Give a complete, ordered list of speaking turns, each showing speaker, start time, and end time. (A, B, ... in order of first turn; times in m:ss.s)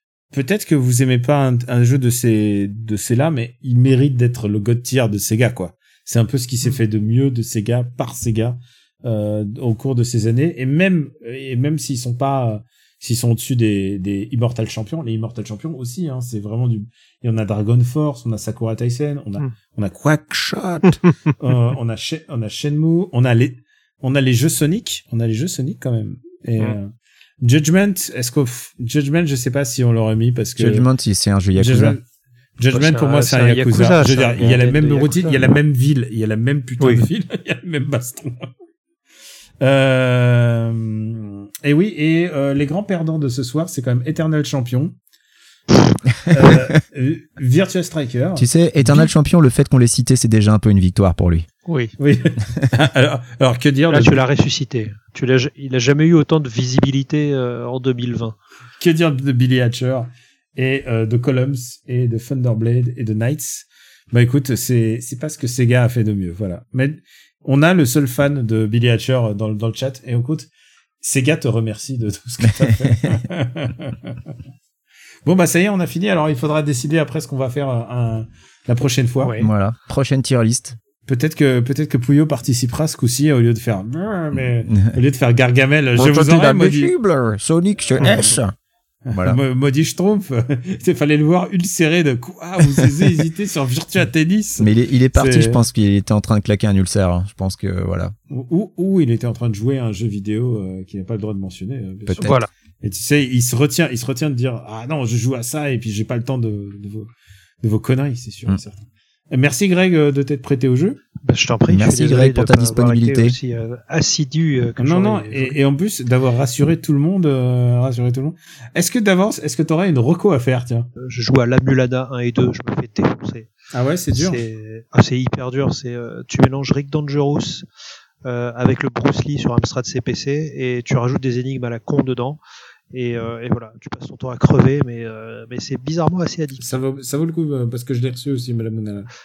0:00.3-0:26.9 A
0:27.4-0:30.9 A
0:30.6-0:32.0 B
0:31.5-0:32.0 A
0:32.6-0:38.5 A
0:32.7-0:35.4 C
0:36.8-0:37.0 C
0:39.6-0:44.9 A
0:46.3-0:49.1 A
0:48.4-0:51.5 B
0:51.6-0:51.9 C
0:52.0-0:54.2 A
0:53.9-0:58.4 C
0:58.8-1:10.5 A
1:11.0-1:14.2 A
1:12.6-1:12.9 B
1:15.2-1:19.3 A
1:19.2-1:19.5 C
1:19.4-1:20.8 B
1:21.0-1:26.9 A
1:24.4-1:25.0 B
1:25.9-1:28.5 B
1:28.0-1:28.3 A
1:29.1-1:35.6 A
1:29.1-1:29.4 B
1:34.6-1:38.1 B
1:38.3-1:47.1 A
1:42.0-1:42.4 B
1:42.2-1:42.5 C
1:47.6-1:48.8 A
1:49.3-1:51.0 A
1:51.2-1:55.6 C
1:51.7-1:53.4 B
1:54.8-2:00.9 A
2:01.0-2:03.5 C
2:03.7-2:04.4 A
2:04.1-2:07.6 C
2:08.2-2:12.4 C
2:12.9-2:16.6 C
2:16.6-2:19.1 A